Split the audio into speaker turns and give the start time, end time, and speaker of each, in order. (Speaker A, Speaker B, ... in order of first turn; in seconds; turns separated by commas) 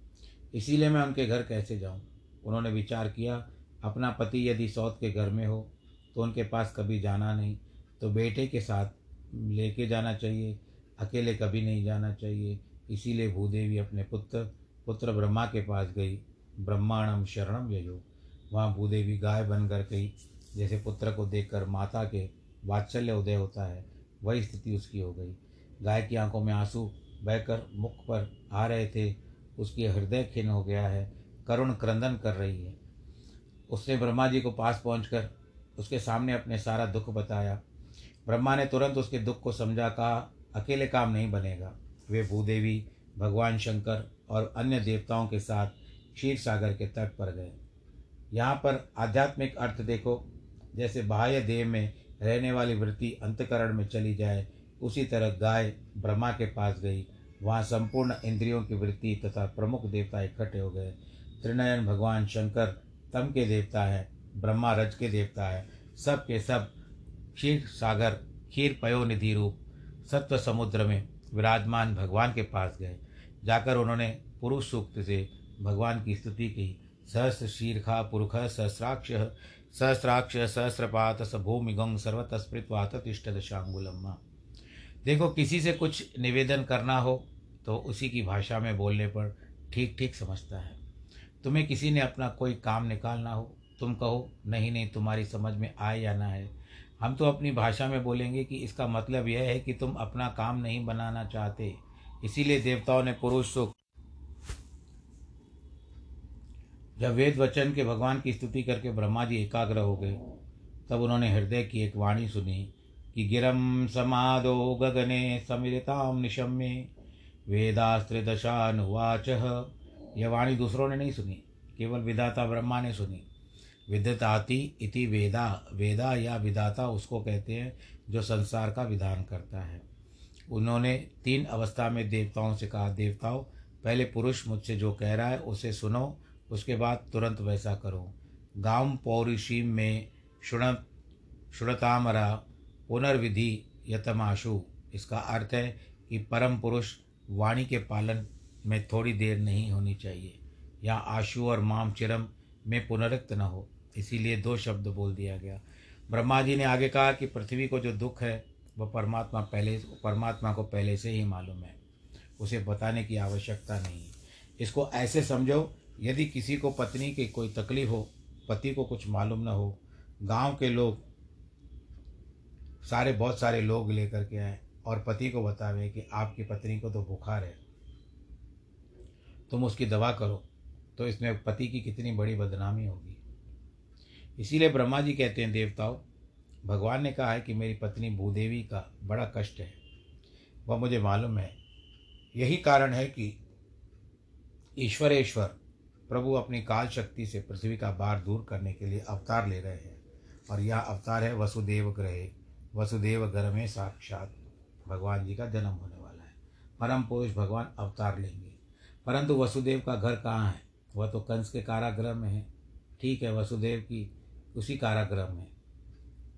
Speaker A: 0.5-32.8, Speaker A: 33.7-37.6, Speaker A: 38.3-47.6, Speaker A: 48.3-66.7, Speaker A: 67.3-84.2, Speaker A: 85.0-90.8, Speaker A: 91.4-103.8, Speaker A: 107.0-110.2, Speaker A: 110.9-116.9, Speaker A: 117.5-123.3, Speaker A: 123.9-129.8, Speaker A: 130.5-140.8, Speaker A: 141.5-161.8, Speaker A: 162.4-171.0, Speaker A: 172.8-177.6, Speaker A: 179.5-183.2, Speaker A: 184.4-186.0, Speaker A: 186.7-189.8, Speaker A: 190.7-191.5, Speaker A: 192.3-193.4, Speaker A: 194.8-195.6, Speaker A: 196.1-204.3, Speaker A: 204.9-212.5, Speaker A: 213.0-215.5